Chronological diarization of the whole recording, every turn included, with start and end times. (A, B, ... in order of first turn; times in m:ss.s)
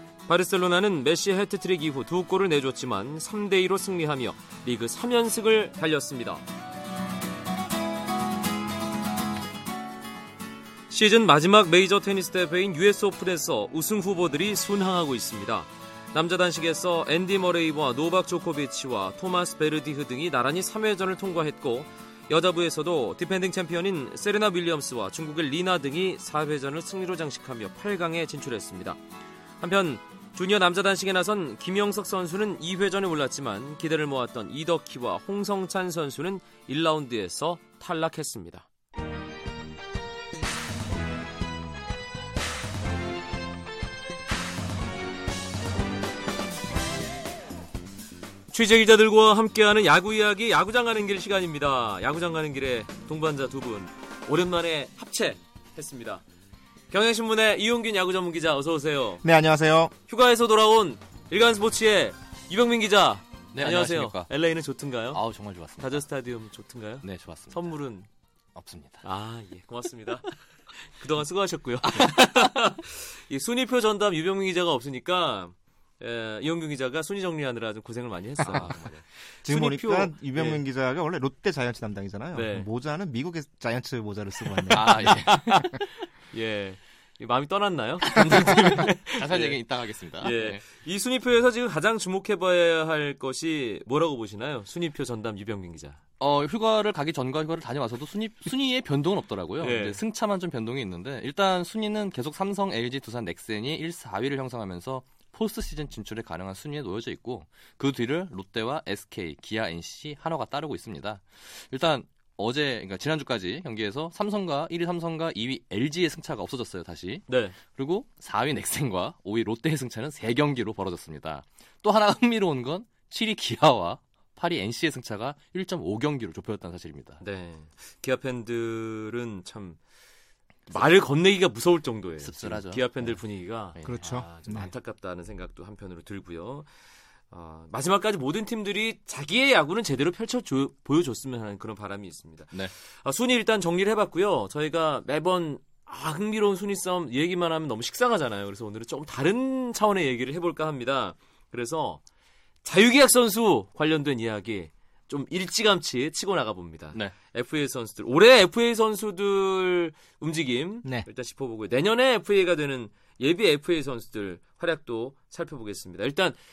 0:00.3-0:06.4 A
0:10.9-0:29.0 A
0:29.6-0:38.7 A
0:48.5-0:56.2 A
0:56.9-0:59.2 A
0:59.2-0:59.9 B
1:00.1-1:05.2 A
1:03.5-1:04.3 C
1:05.1-1:06.0 C
1:05.8-1:08.1 A
1:07.0-1:07.7 C
1:08.6-1:09.0 C
1:09.0-1:20.6 A
1:18.5-1:18.9 C
1:19.4-1:25.2 B
1:22.3-1:22.7 A
1:24.7-1:25.8 C
1:24.7-1:29.6 A
1:28.2-1:30.6 C
1:30.2-1:36.0 A
1:36.2-2:07.2 C
1:39.6-1:40.0 A
1:57.3-1:57.6 A
2:07.2-2:09.8 A
2:10.7-2:16.7 A
2:12.2-2:13.2 C
2:13.8-2:14.7 B
2:17.3-2:32.0 A
2:32.6-2:46.4 A